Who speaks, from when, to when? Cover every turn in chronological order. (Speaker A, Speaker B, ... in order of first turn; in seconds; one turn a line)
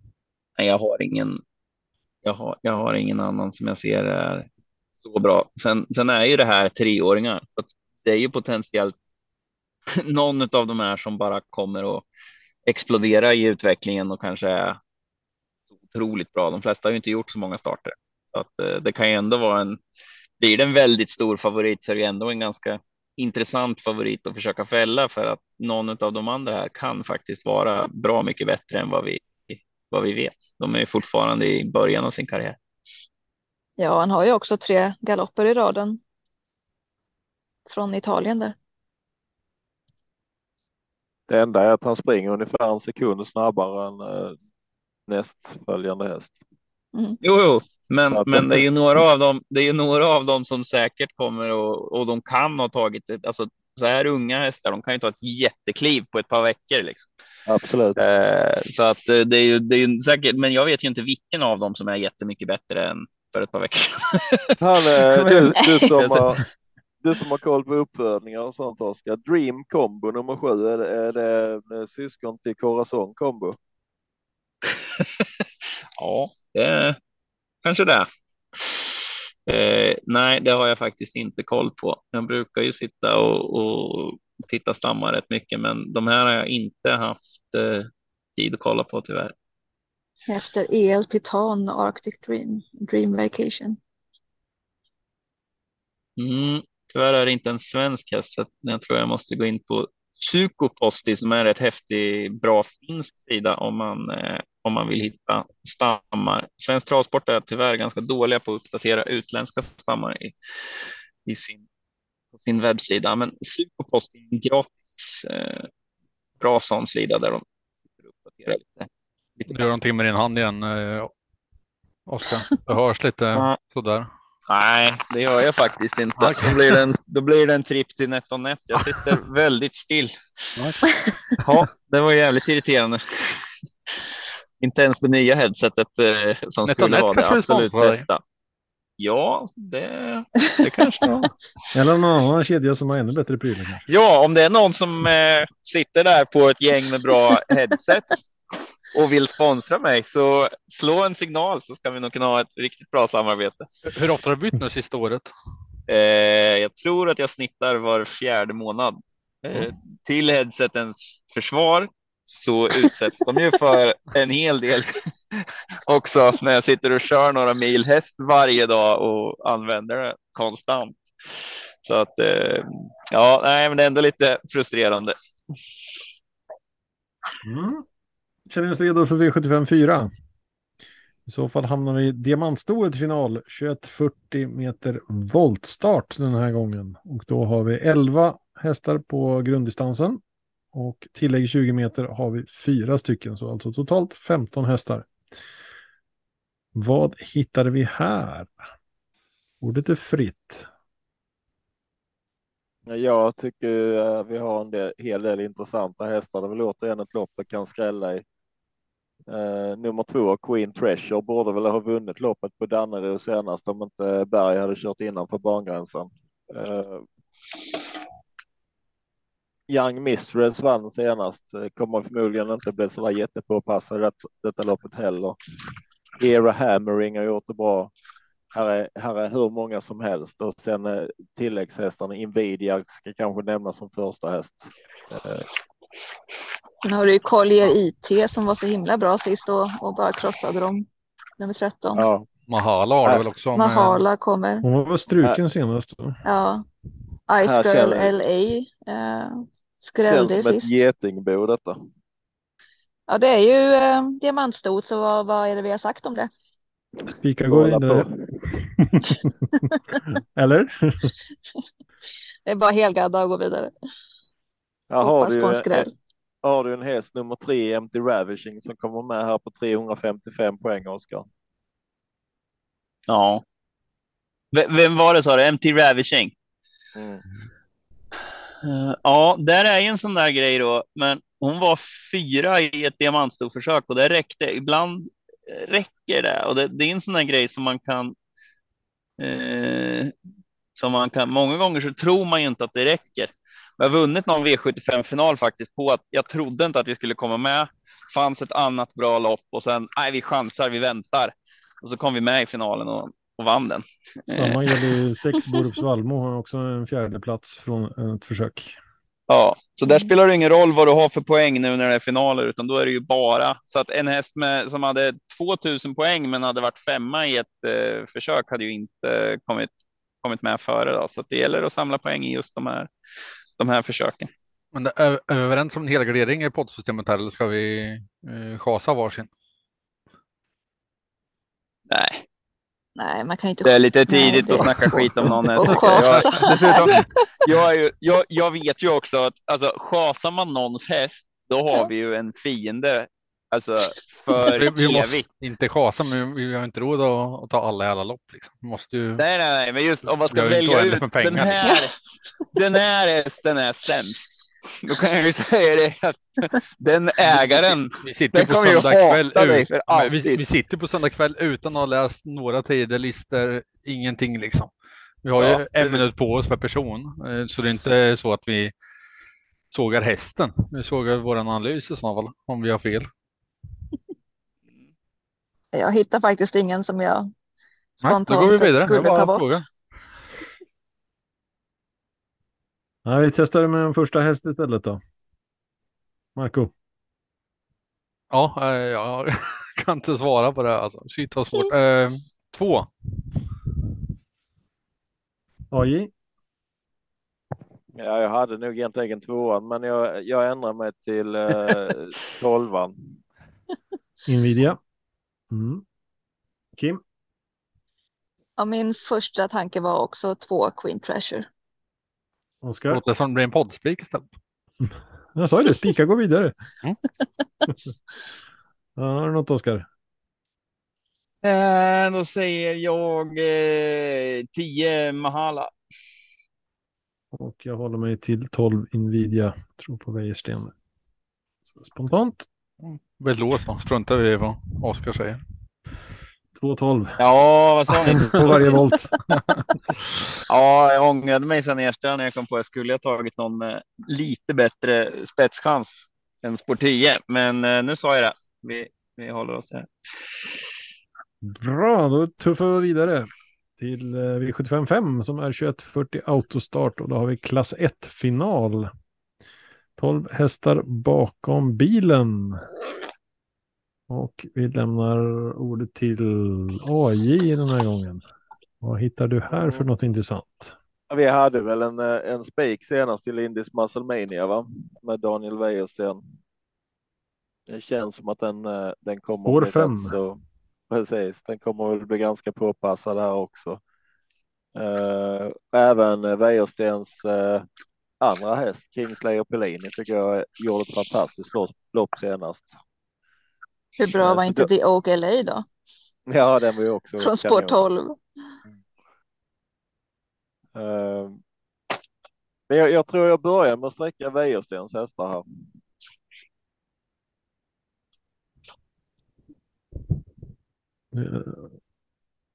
Speaker A: 0.6-1.4
Speaker A: 2.2-4.5
Speaker A: 5.0-9.0
Speaker A: 9.9-12.1
Speaker A: 12.7-14.8
Speaker A: 15.9-19.8
Speaker A: 20.4-32.6
Speaker B: 33.8-36.0
Speaker B: 37.7-38.6
Speaker C: 41.3-44.4
Speaker C: 45.1-46.4
Speaker A: 47.2-57.1
Speaker C: 48.1-48.6
Speaker C: 57.5-58.0
Speaker A: 58.0-66.4
Speaker C: 64.6-66.4
Speaker C: 67.0-73.6
Speaker A: 74.7-75.2
Speaker A: 76.0-77.0
Speaker A: 77.6-89.3
Speaker B: 90.3-93.8
Speaker A: 96.2-110.3
Speaker A: 111.3-111.6
Speaker A: 112.3-115.7
Speaker A: 116.4-117.4
Speaker A: 118.3-119.6
Speaker D: 119.5-121.1
Speaker D: 122.1-124.1
Speaker A: 124.5-130.5
Speaker D: 126.2-126.6
Speaker D: 130.6-130.9
Speaker A: 131.4-133.4
Speaker A: 134.6-138.2
Speaker D: 136.7-138.1
Speaker A: 139.0-141.3
Speaker E: 141.7-143.8
Speaker A: 143.9-148.3
Speaker A: 148.9-153.7
Speaker D: 153.9-155.3
Speaker A: 155.9-175.1
Speaker E: 177.4-177.8
Speaker E: 178.5-180.1
Speaker E: 181.3-190.2
Speaker E: 190.7-195.1
Speaker E: 196.8-198.6
Speaker E: 199.6-200.7
Speaker C: 202.9-208.2
Speaker C: 209.3-217.0
Speaker C: 219.7-225.4
Speaker C: 226.2-227.9
Speaker C: 228.5-235.5
Speaker B: 236.8-240.9
Speaker B: 241.4-242.1
Speaker C: 242.0-242.3
Speaker D: 242.5-244.0
Speaker B: 243.6-244.7
Speaker E: 244.6-246.2
Speaker B: 246.2-246.7
Speaker B: 247.3-250.7
Speaker C: 247.4-248.1
Speaker C: 250.0-251.8
Speaker B: 253.1-256.3
Speaker E: 257.1-258.1
Speaker C: 257.5-258.7
Speaker E: 258.8-259.3
Speaker E: 260.1-261.1
Speaker B: 262.5-263.7
Speaker C: 264.9-265.9
Speaker B: 265.0-265.9
Speaker C: 266.4-271.3
Speaker A: 273.1-273.4
Speaker A: 274.5-276.3
Speaker C: 277.0-277.2
Speaker A: 278.6-288.1
Speaker A: 289.2-290.1
Speaker A: 290.8-304.7
Speaker E: 304.3-308.8
Speaker A: 309.3-322.9
Speaker A: 323.6-324.3
Speaker D: 324.7-329.3
Speaker A: 331.9-332.2
Speaker B: 333.0-337.1
Speaker A: 333.6-345.3
Speaker D: 344.4-349.2
Speaker A: 349.2-352.0
Speaker D: 350.3-351.7
Speaker A: 352.5-360.4
Speaker D: 358.0-364.7
Speaker D: 365.2-368.7
Speaker A: 365.4-366.0
Speaker D: 369.7-373.1
Speaker B: 375.7-377.3
Speaker B: 378.0-379.6
Speaker D: 378.0-379.6
Speaker E: 383.1-385.0
Speaker E: 386.4-386.7
Speaker D: 388.3-392.9
Speaker E: 395.7-396.1
Speaker C: 398.0-402.9
Speaker E: 404.3-404.8
Speaker E: 405.5-405.8
Speaker B: 408.6-411.5
Speaker E: 412.6-413.0
Speaker D: 412.9-414.3
Speaker E: 414.8-416.6
Speaker E: 419.0-419.9
Speaker A: 421.4-425.7
Speaker E: 427.3-430.7
Speaker E: 431.7-432.5
Speaker D: 432.8-435.4
Speaker E: 436.6-437.2
Speaker A: 437.2-438.8
Speaker E: 438.1-439.1
Speaker A: 440.5-449.9
Speaker E: 451.4-453.3
Speaker E: 453.8-458.9
Speaker E: 460.0-462.6
Speaker E: 464.1-468.2
Speaker E: 468.8-470.7
Speaker C: 469.6-469.9
Speaker C: 471.1-476.2
Speaker C: 477.7-483.8
Speaker E: 479.4-480.2
Speaker C: 484.8-487.7
Speaker C: 488.2-492.8
Speaker B: 494.0-495.7
Speaker C: 494.1-494.7
Speaker C: 496.3-497.8
Speaker B: 497.2-498.2
Speaker C: 500.8-501.4
Speaker C: 502.7-505.4
Speaker E: 511.1-511.7